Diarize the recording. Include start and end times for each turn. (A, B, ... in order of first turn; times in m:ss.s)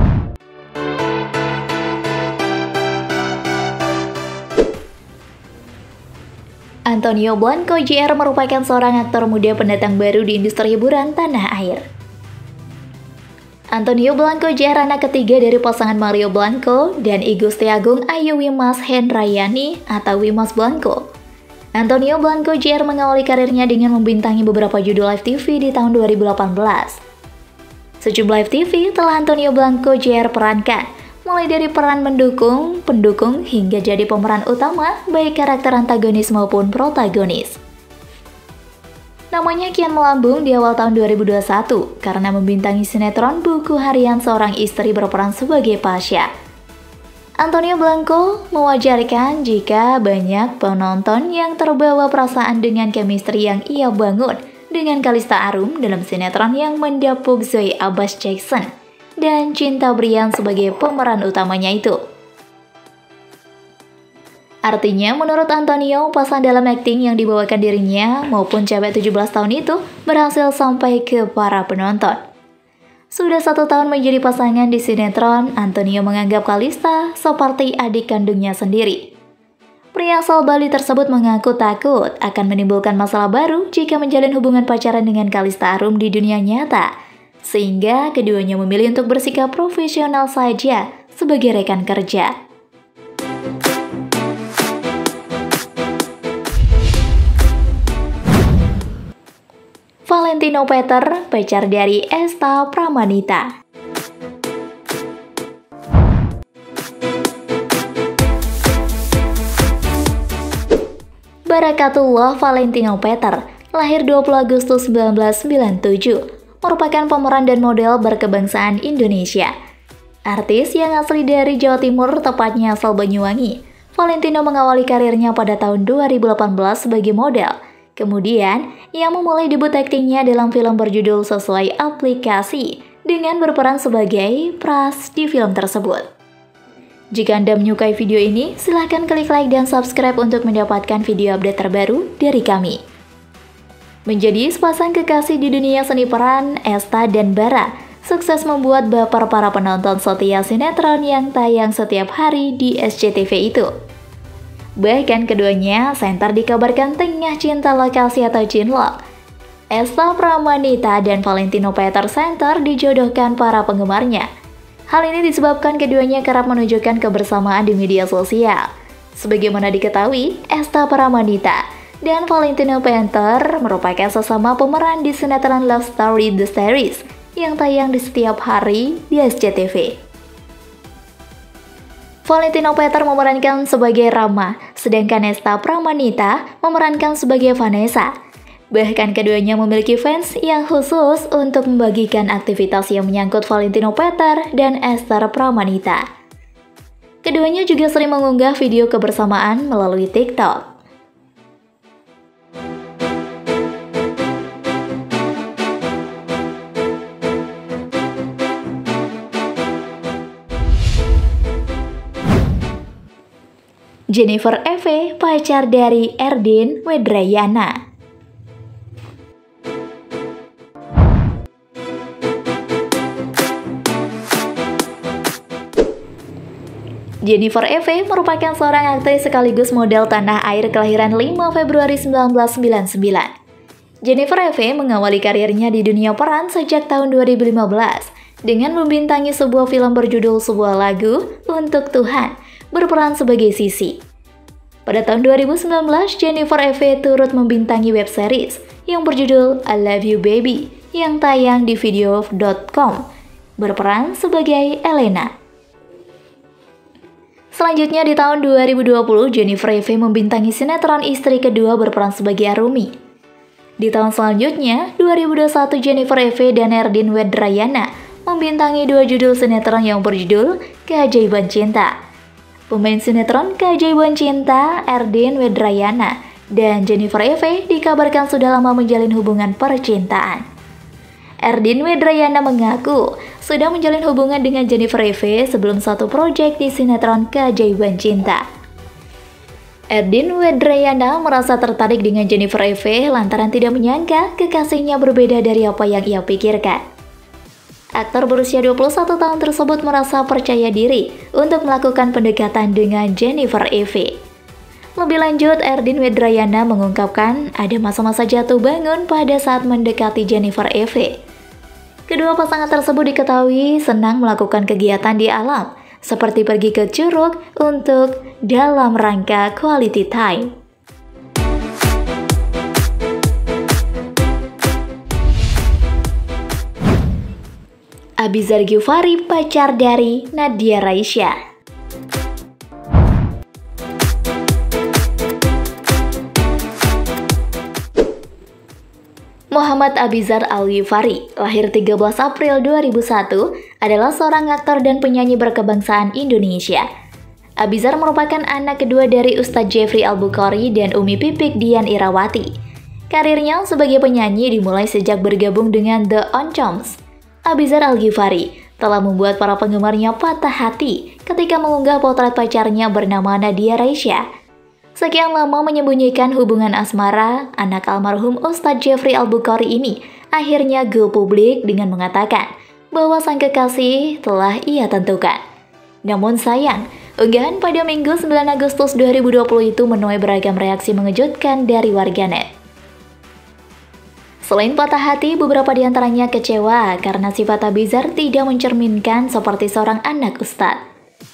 0:06.9-0:11.8 A
0:13.7-0:21.0 A
0:21.8-0:27.0 A
0:28.0-0:37.6 A
0:39.3-0:46.3 A
0:47.4-0:58.7 A
0:59.2-1:02.0 A
1:04.7-1:12.2 A
1:13.1-1:19.0 A
1:19.9-1:26.9 A
1:27.4-1:32.3 A
1:40.1-1:43.5 A
1:51.5-1:59.5 A
2:00.3-2:16.1 A
2:17.1-2:22.8 A
2:24.1-2:33.7 A
2:34.8-2:39.0 A
2:39.7-2:44.3 A
2:44.9-3:00.0 A
3:02.2-3:08.1 A
3:08.7-3:16.0 A
3:17.2-3:20.7 A
3:34.1-3:37.8 A
3:47.2-3:53.3 A
3:54.0-4:04.0 A
4:04.9-4:13.0 A
4:13.6-4:15.3 A
4:17.5-4:22.9 A
4:23.8-4:31.9 A
4:32.7-4:40.4 A
4:41.4-4:48.4 A
4:49.9-4:56.8 A
4:58.0-5:04.2 A
5:05.0-5:11.1 A
5:12.1-5:20.5 A
5:28.2-5:31.4 A
5:39.5-5:46.9 A
5:47.6-5:52.5 A
5:53.1-6:04.2 A
6:05.0-6:15.4 A
6:16.0-6:22.5 A
6:24.4-6:30.8 A